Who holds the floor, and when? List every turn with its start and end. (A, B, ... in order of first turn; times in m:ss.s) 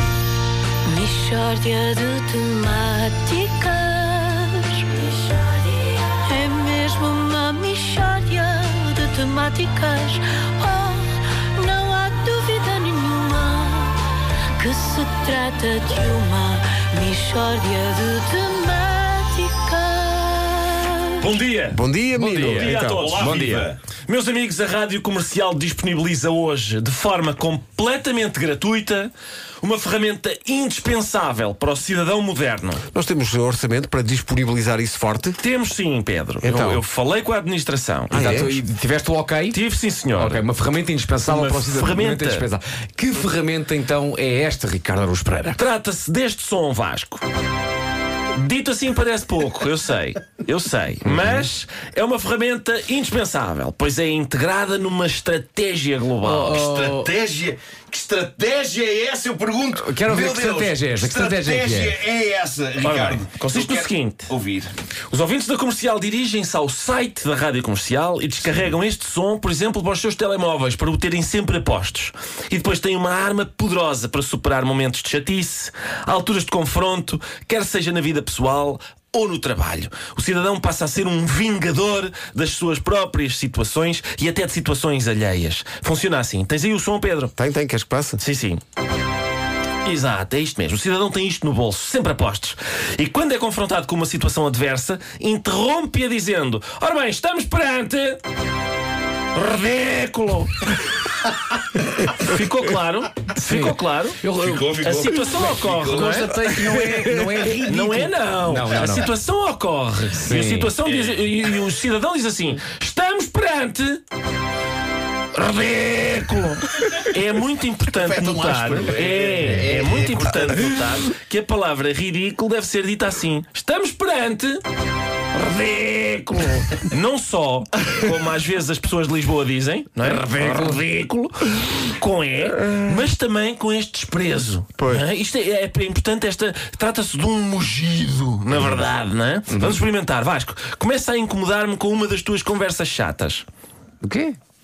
0:00.9-0:14.0 A
0:14.6-0:21.3 A
0:21.2-0:21.8 B
0:21.7-0:23.2 C
0:22.2-0:23.7 D
0:22.4-0:32.8 B
0:22.8-0:23.8 E
0:32.9-0:35.4 C
0:35.4-0:38.5 B
0:36.4-0:36.8 C
0:38.1-0:38.6 C
0:38.1-0:39.6 D
0:39.5-0:40.4 B
0:40.1-0:45.6 D
0:41.2-0:42.5 B
0:45.6-0:47.2 B
0:48.3-0:56.6 B
0:51.0-0:51.5 D
0:56.2-0:57.1 D
0:56.4-1:04.7 E
0:59.7-1:02.0 D
1:02.8-1:04.3 B
1:05.1-1:27.3 B
1:27.4-1:28.2 C
1:28.2-1:28.6 B
1:29.8-1:38.2 B
1:39.3-1:41.0 B
1:42.0-1:54.0 B
1:43.4-1:43.8 D
1:44.3-1:46.5 E
1:45.6-1:49.1 D
1:47.7-1:48.1 E
1:50.1-1:50.7 D
1:50.8-1:51.7 E
1:55.3-2:04.6 B
1:57.9-2:00.8 E
2:05.3-2:23.4 B
2:10.0-2:10.8 D
2:14.8-2:15.0 C
2:19.5-2:19.8 D
2:24.0-2:24.4 D